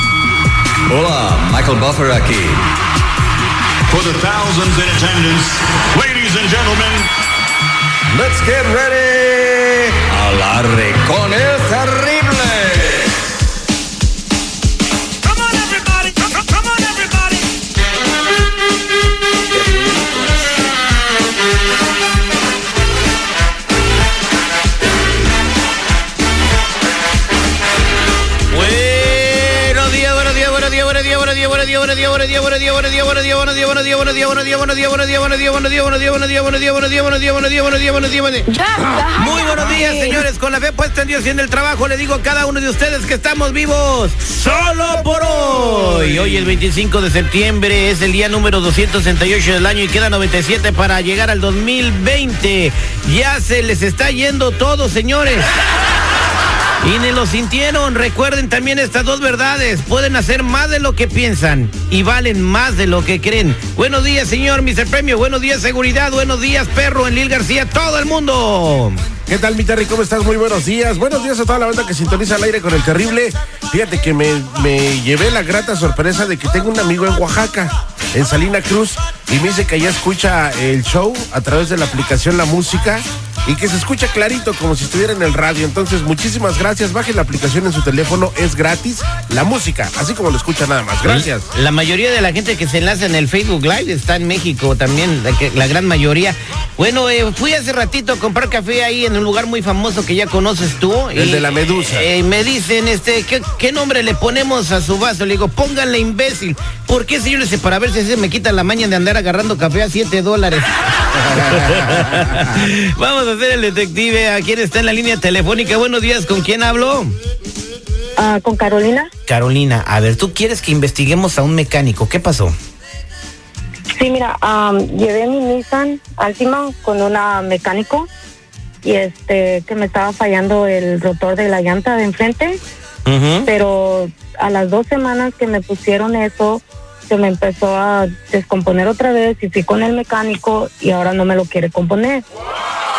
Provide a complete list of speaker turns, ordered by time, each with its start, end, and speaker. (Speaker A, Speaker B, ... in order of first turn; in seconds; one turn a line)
Speaker A: 0.9-2.6
Speaker B: 3.9-7.1
Speaker A: 8.2-13.1
Speaker C: 28.5-55.5
Speaker C: 56.8-69.0
Speaker D: 69.3-91.5
Speaker C: 91.0-117.2
Speaker D: 101.2-102.1
Speaker E: 118.2-119.1
Speaker C: 119.3-122.5
Speaker E: 124.0-128.1
Speaker E: 128.8-132.6
Speaker C: 133.1-133.5
Speaker E: 133.4-142.2